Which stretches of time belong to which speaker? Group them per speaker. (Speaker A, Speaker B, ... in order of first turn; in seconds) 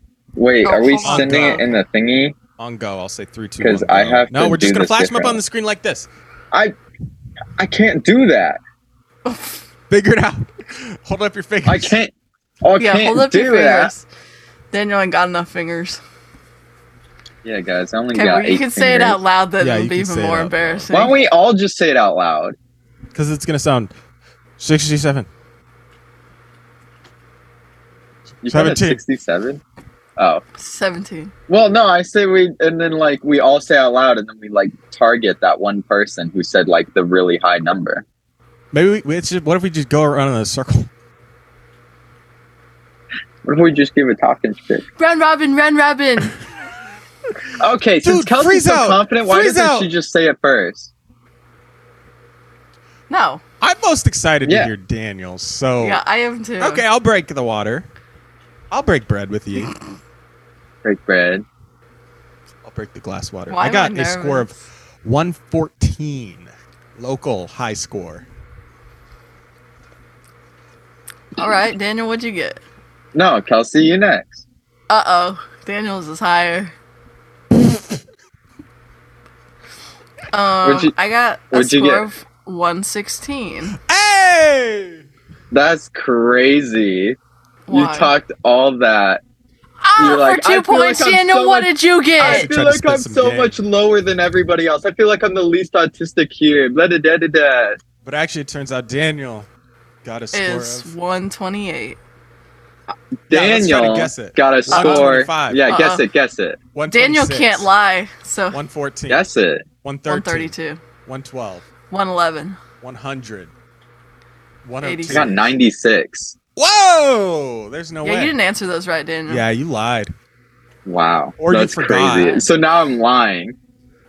Speaker A: 0.3-2.4, 3.6-5.4, 7.6-8.6, 11.7-13.9, 17.4-19.2, 20.9-22.6, 28.4-29.6, 30.2-30.4, 31.5-38.0, 43.4-44.8, 47.6-50.9, 54.4-54.7, 60.8-61.4, 73.1-74.4, 80.6-80.9, 81.5-82.1, 85.5-87.2, 87.7-89.2, 90.0-97.8, 103.3-106.6, 109.1-109.7, 115.1-116.3, 120.8-123.5
Speaker B: 0.6-1.6, 9.2-9.6, 12.8-14.1, 14.7-16.0, 18.1-21.1, 30.6-31.3, 45.0-46.3, 53.1-53.4, 55.8-56.8, 63.5-64.5, 71.4-72.6, 74.9-76.7, 80.3-83.7, 87.7-88.1, 89.8-92.5, 100.3-102.0, 104.7-106.0, 106.9-108.6, 110.1-110.8, 111.9-112.6, 114.8-115.3, 118.0-119.4
Speaker C: 1.0-1.8, 2.6-6.1, 9.9-12.0, 19.6-20.9, 23.1-23.9, 24.6-25.3, 28.4-29.0, 38.7-40.9, 48.0-49.9, 53.6-56.0, 56.6-57.9, 58.7-59.7, 62.6-68.2, 83.8-85.0, 92.2-93.5, 98.0-99.5, 100.0-100.9, 103.3-105.7, 106.7-107.7, 108.5-109.3, 109.8-110.5, 111.0-111.7, 112.8-113.5, 114.6-115.6, 116.5-118.3, 119.3-120.1, 121.4-122.4